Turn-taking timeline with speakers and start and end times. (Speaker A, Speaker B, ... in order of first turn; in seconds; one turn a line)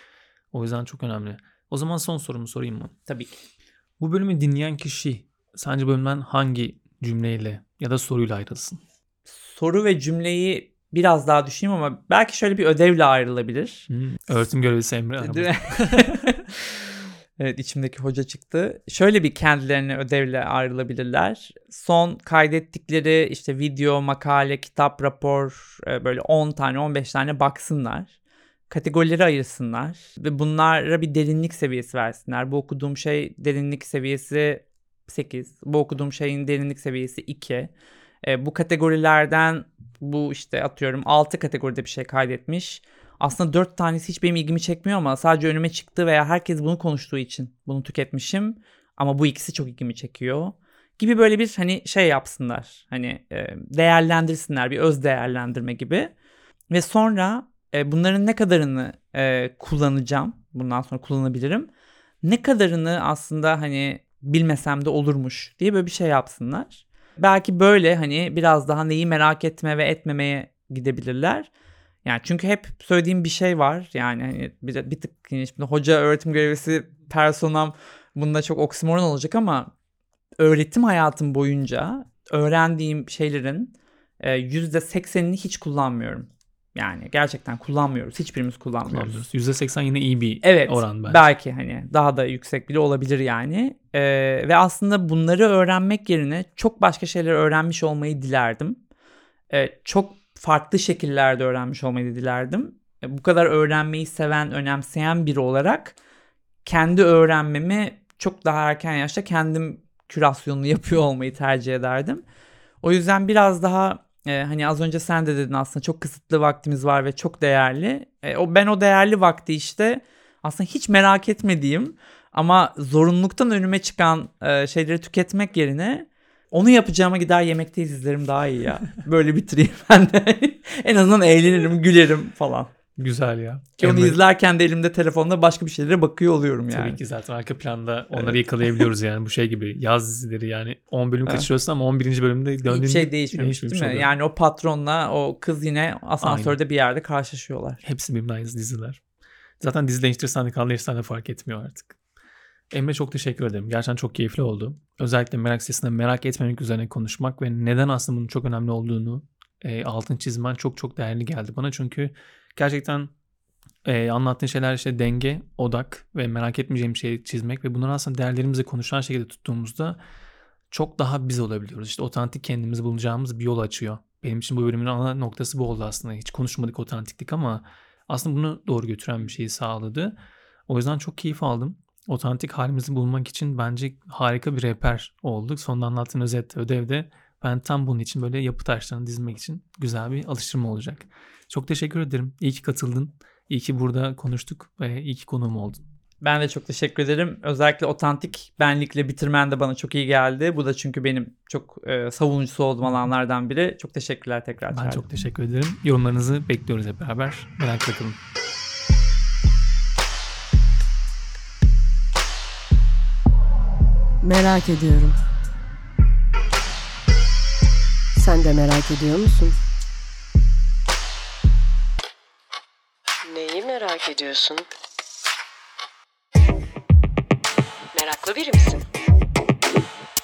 Speaker A: 0.5-2.9
Speaker B: 3.1-3.4
Speaker A: 4.0-8.8
Speaker B: 9.2-13.9
Speaker A: 13.9-16.3
Speaker B: 15.2-16.8
Speaker B: 17.4-28.1
Speaker B: 28.7-37.7
Speaker B: 38.2-56.1
Speaker B: 56.7-61.7
Speaker B: 62.2-71.5
Speaker B: 72.0-79.7
Speaker B: 80.4-89.2
Speaker A: 88.9-91.2
Speaker B: 90.4-98.8
Speaker B: 99.5-106.0
Speaker B: 106.6-112.2
Speaker B: 112.8-132.7
Speaker A: 132.9-134.2
Speaker B: 133.8-137.0
Speaker A: 136.7-144.1
Speaker B: 138.1-138.8
Speaker B: 142.7-147.8
Speaker A: 146.2-146.6
Speaker A: 147.8-149.0
Speaker A: 149.6-152.0
Speaker A: 152.7-163.1
Speaker A: 163.8-170.0
Speaker A: 170.7-180.1
Speaker A: 180.7-195.8
Speaker B: 196.2-205.0
Speaker A: 204.7-208.2
Speaker C: 214.2-215.2
Speaker C: 218.1-219.6
Speaker C: 223.2-224.7
Speaker C: 227.9-228.8